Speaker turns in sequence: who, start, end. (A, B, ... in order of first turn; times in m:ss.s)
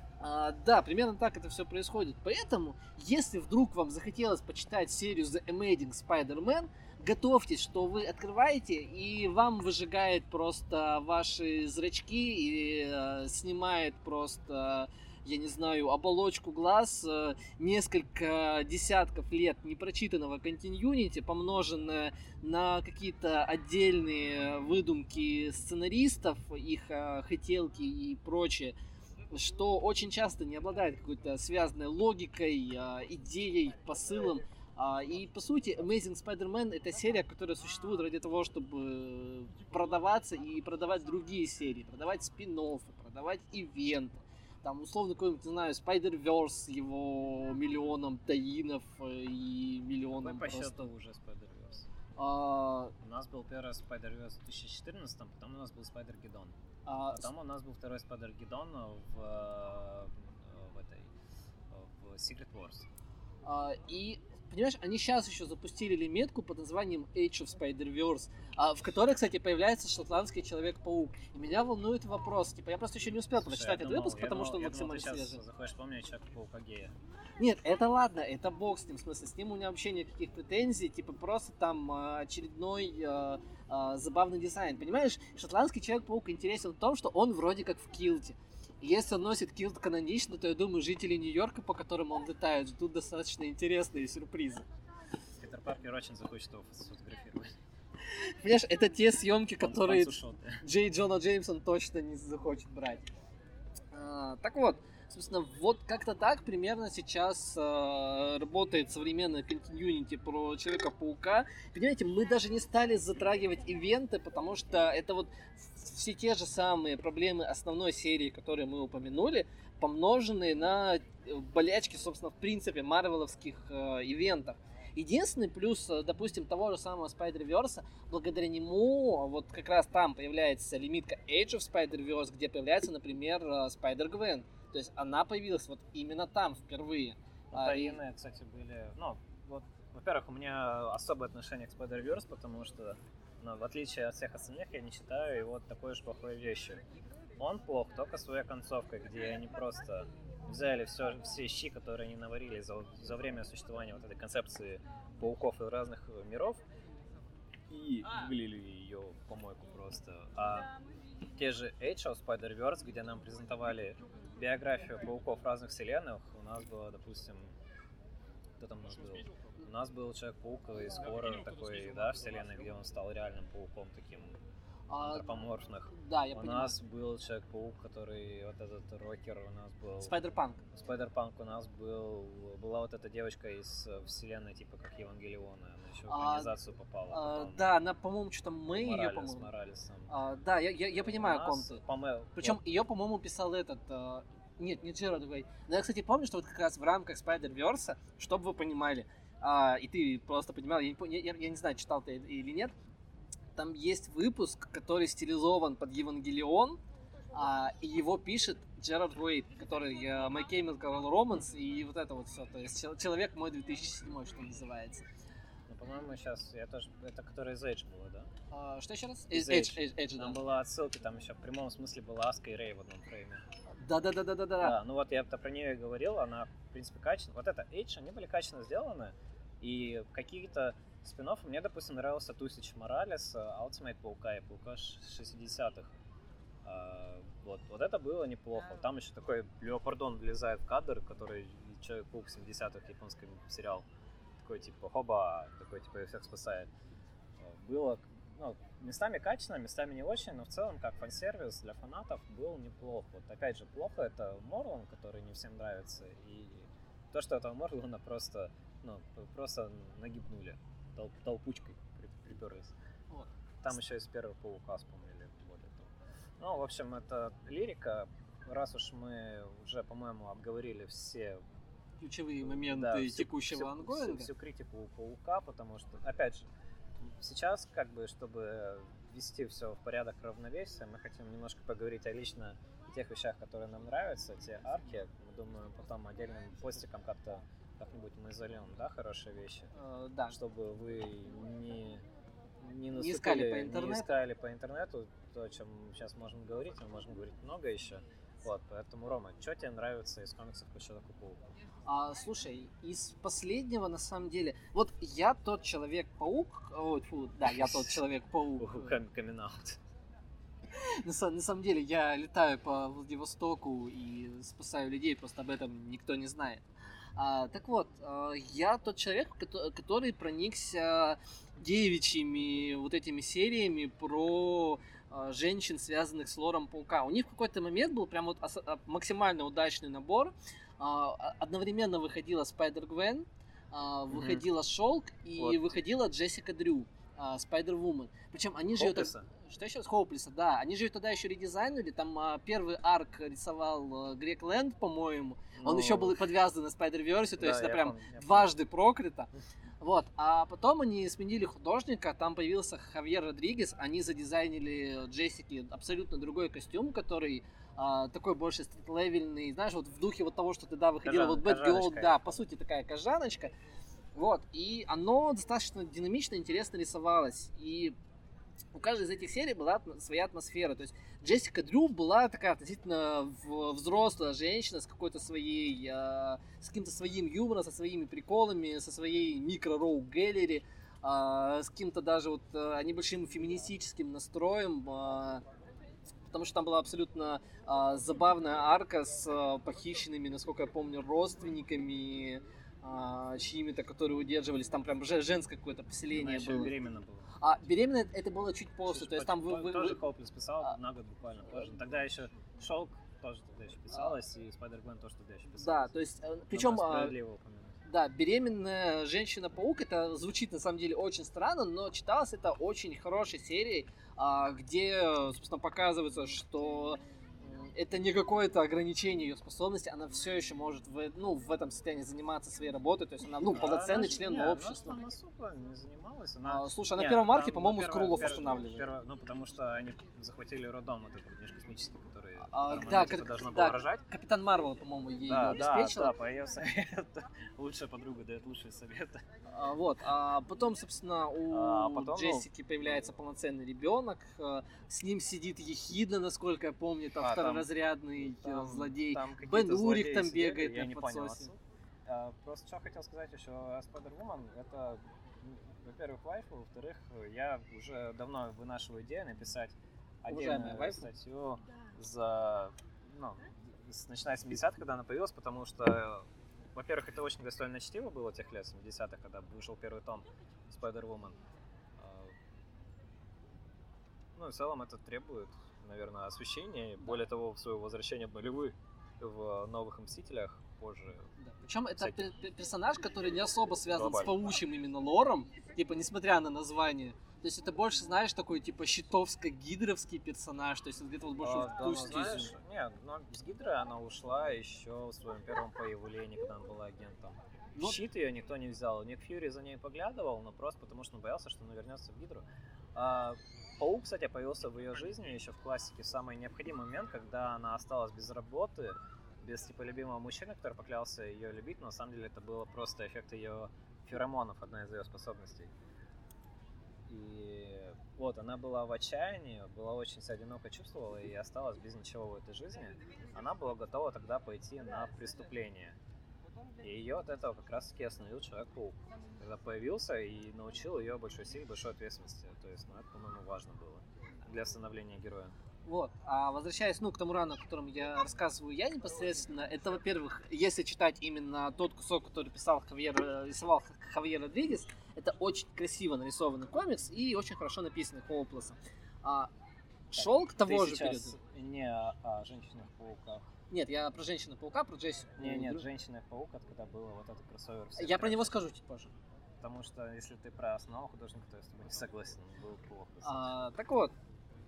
0:00.2-0:28.8 A
0:29.3-0:50.8 A
0:50.2-0:51.9 B
0:52.2-0:52.9 A
0:53.0-0:56.5 B
0:56.8-0:57.3 A
0:57.1-1:01.1 B
1:01.7-1:02.9 B
1:03.4-1:15.4 A
1:13.3-1:16.9 B
1:17.4-1:34.6 A
1:35.4-1:37.5 B
1:38.1-1:43.1 A
1:39.6-1:40.6 B
1:43.9-2:18.0 A
2:17.5-2:26.8 B
2:27.4-2:36.6 B
2:37.7-2:40.7 B
2:41.4-2:47.4 B
2:48.6-2:54.4 B
2:54.9-2:55.2 A
2:55.0-3:00.2 B
2:55.9-2:56.8 A
3:00.0-3:00.6 A
3:00.7-3:07.7 B
3:06.1-3:06.5 A
3:07.1-3:09.5 A
3:08.7-3:10.1 B
3:10.1-3:11.8 A
3:11.0-3:12.6 B
3:12.4-3:22.7 A
3:23.6-3:26.8 A
3:27.3-3:35.0 A
3:35.7-3:38.3 B
3:38.5-3:40.4 A
3:39.3-3:43.4 B
3:43.8-3:44.8 A
3:44.6-3:55.9 B
3:56.6-4:03.9 B
4:04.4-4:06.7 B
4:07.4-4:22.7 B
4:23.6-4:31.4 B
4:32.0-4:34.3 A
4:32.4-4:36.5 B
4:37.0-4:49.7 B
4:49.7-4:50.4 A
4:50.3-4:52.0 B
4:52.6-5:01.4 B
4:53.0-4:54.1 A
5:01.8-5:08.9 A
5:07.4-5:08.0 B
5:08.6-5:09.8 B
5:10.8-5:49.3 A
5:34.1-5:34.4 B
5:35.4-5:35.8 B
5:38.7-5:39.3 B
5:45.6-5:46.2 B
5:47.4-5:48.5 B
5:49.8-6:03.5 A
6:01.0-6:02.4 B
6:04.2-6:08.0 A
6:08.7-6:25.4 A
6:26.3-6:36.7 A
6:36.1-6:37.4 B
6:37.4-6:40.0 A
6:38.9-6:45.9 B
6:45.6-6:47.1 A
6:46.5-6:47.8 B
6:47.9-7:04.9 A
7:03.4-7:14.0 B
7:06.4-7:08.8 A
7:12.5-7:16.1 A
7:15.3-7:19.2 B
7:19.5-7:31.5 A
7:21.5-7:22.5 B
7:27.2-7:51.4 B
7:40.3-7:41.1 A
7:52.0-7:52.4 B
7:54.3-8:01.3 B
8:01.4-8:12.5 A
8:02.0-8:02.3 B
8:03.9-8:04.4 B
8:11.4-8:35.7 B
8:37.1-8:46.0 B
8:46.8-8:55.5 B
8:55.8-9:09.5 A
9:10.1-9:11.3 A
9:10.2-9:13.5 B
9:13.7-9:15.8 A
9:15.4-9:18.6 B
9:18.0-9:19.1 A
9:19.6-9:23.5 B
9:23.2-9:24.1 A